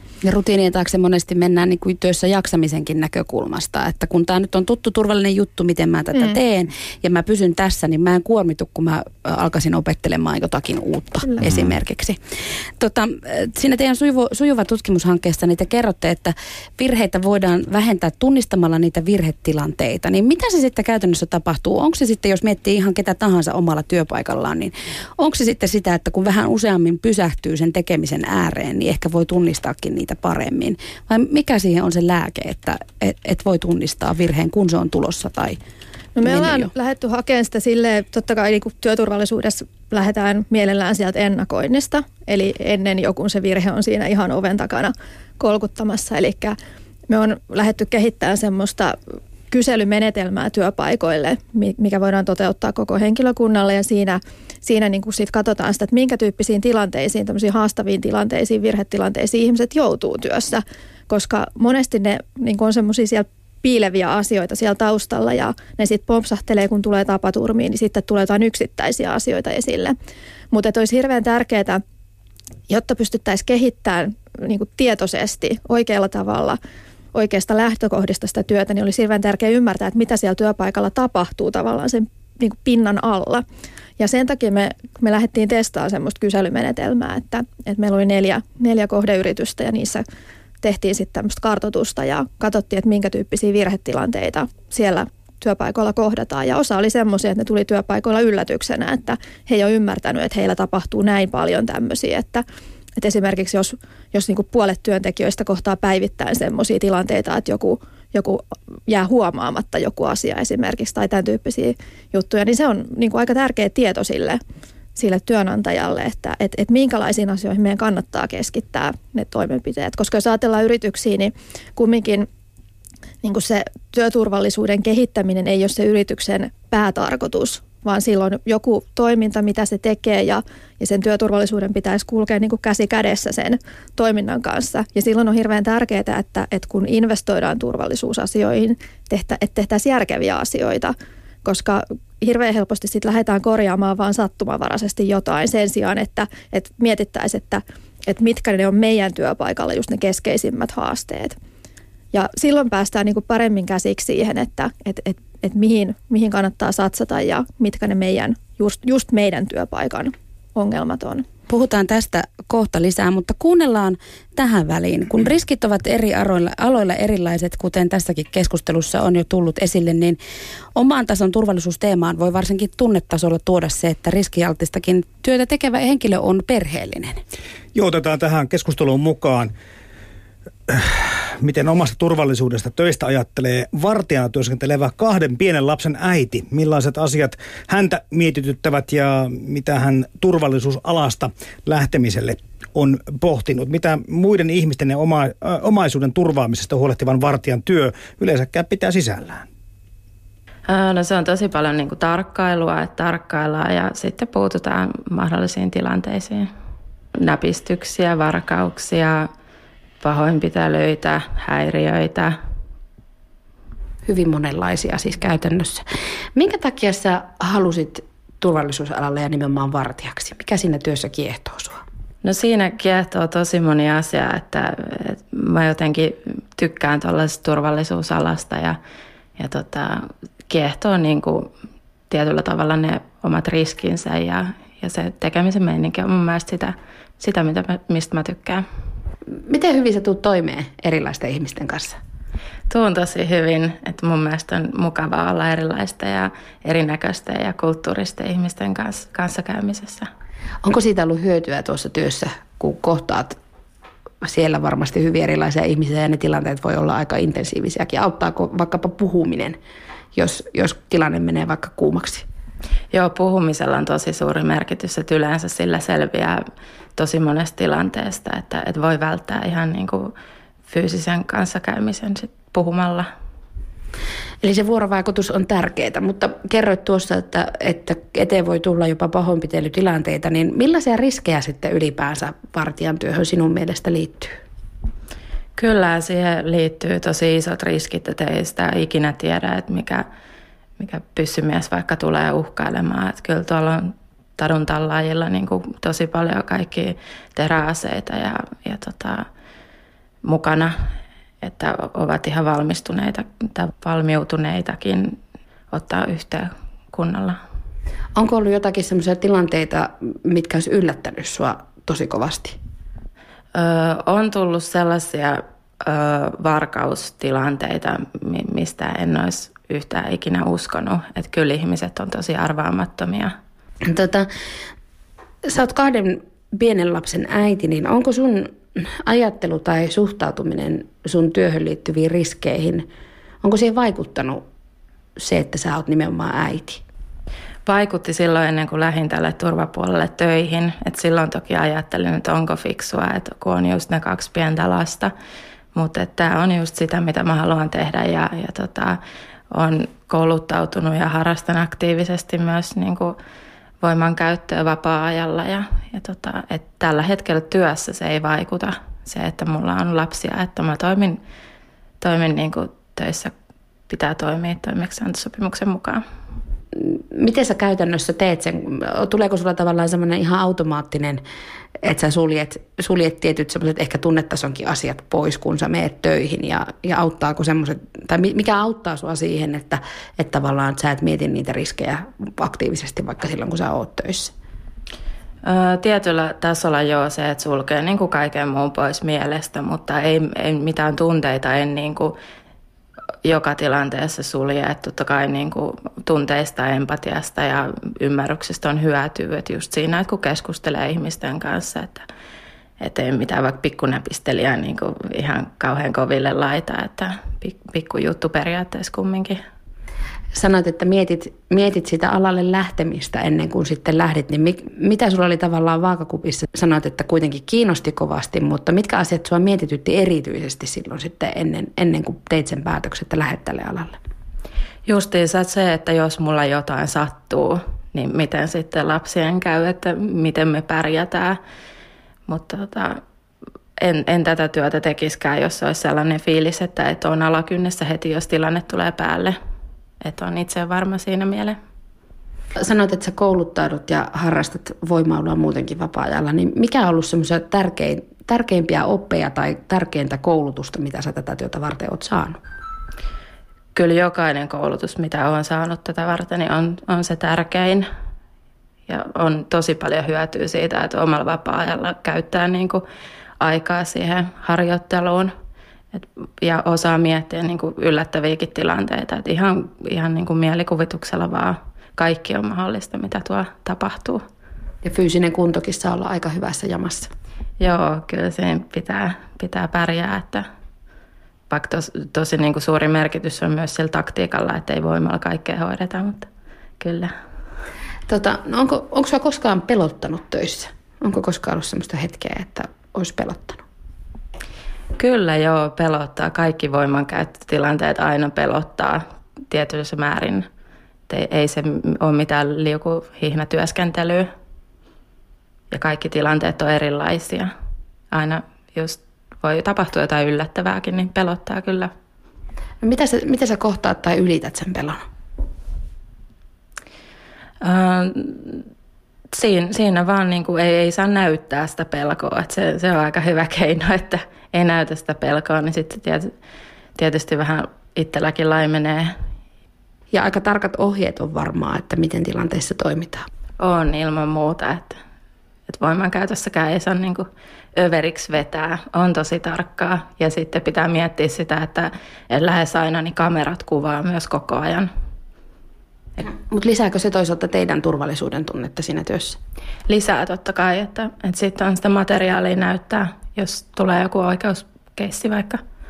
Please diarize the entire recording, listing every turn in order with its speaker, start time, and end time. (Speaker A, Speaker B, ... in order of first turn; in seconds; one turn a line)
Speaker A: 0.2-12.2
Speaker A: 12.8-35.6
Speaker B: 36.2-46.6
Speaker A: 36.2-36.7
Speaker B: 47.1-49.0
Speaker B: 49.5-70.0
Speaker B: 70.5-71.8
Speaker B: 72.7-76.6
Speaker B: 77.1-83.4
Speaker B: 84.0-90.0
Speaker B: 90.6-102.4
Speaker B: 103.0-114.4
Speaker B: 115.0-122.3
Speaker B: 123.2-140.9
Speaker B: 141.4-151.3
Speaker B: 152.1-161.2
Speaker A: 161.5-170.2
Speaker A: 170.8-177.2
Speaker C: 177.8-179.5
Speaker C: 180.7-199.4
Speaker D: 200.7-206.5
Speaker D: 207.2-209.3
Speaker D: 210.0-212.4
Speaker A: 214.1-221.8
Speaker D: 222.2-228.8
Speaker D: 229.4-231.5
Speaker D: 232.1-238.7
Speaker A: 239.5-242.0
Speaker D: 242.7-250.1
Speaker A: 250.6-253.4
Speaker A: 254.2-259.6
Speaker A: 260.1-262.3
Speaker D: 262.9-266.4
Speaker D: 267.0-270.1
Speaker D: 270.7-273.1
Speaker A: 274.4-284.4
Speaker D: 285.6-290.1
Speaker D: 290.8-299.3
Speaker D: 300.2-300.8
Speaker D: 301.4-305.2
Speaker D: 305.7-307.4
Speaker A: 308.2-312.6
Speaker D: 313.6-323.4
Speaker A: 323.9-324.3
Speaker A: 325.5-332.9
Speaker A: 333.4-334.4
Speaker A: 335.2-336.8
Speaker D: 337.6-345.1
Speaker D: 345.7-349.0
Speaker D: 349.5-353.2
Speaker D: 353.8-361.2
Speaker D: 362.0-363.3
Speaker D: 363.9-366.0
Speaker A: 366.8-371.2
Speaker A: 371.8-384.3
Speaker D: 385.4-392.2
Speaker D: 393.2-402.1
Speaker D: 402.8-409.4
Speaker A: 410.3-424.0
Speaker D: 424.9-431.4
Speaker D: 432.3-433.0
Speaker D: 433.8-439.4
Speaker D: 440.0-441.6
Speaker A: 442.6-452.4
Speaker D: 453.7-457.9
Speaker D: 458.9-462.8
Speaker D: 463.4-465.3
Speaker D: 465.9-474.2
Speaker A: 474.8-477.1
Speaker D: 477.6-480.5
Speaker D: 481.5-486.3
Speaker D: 486.8-487.1
Speaker A: 488.1-493.6
Speaker D: 495.0-500.5
Speaker D: 501.1-504.3
Speaker D: 505.7-507.5
Speaker D: 508.1-511.9
Speaker A: 512.8-515.0
Speaker D: 517.6-518.6
Speaker D: 519.3-526.3
Speaker D: 527.0-529.2
Speaker A: 530.1-533.3
Speaker D: 533.6-535.0
Speaker D: 535.7-544.9
Speaker A: 546.3-549.4
Speaker D: 549.9-555.6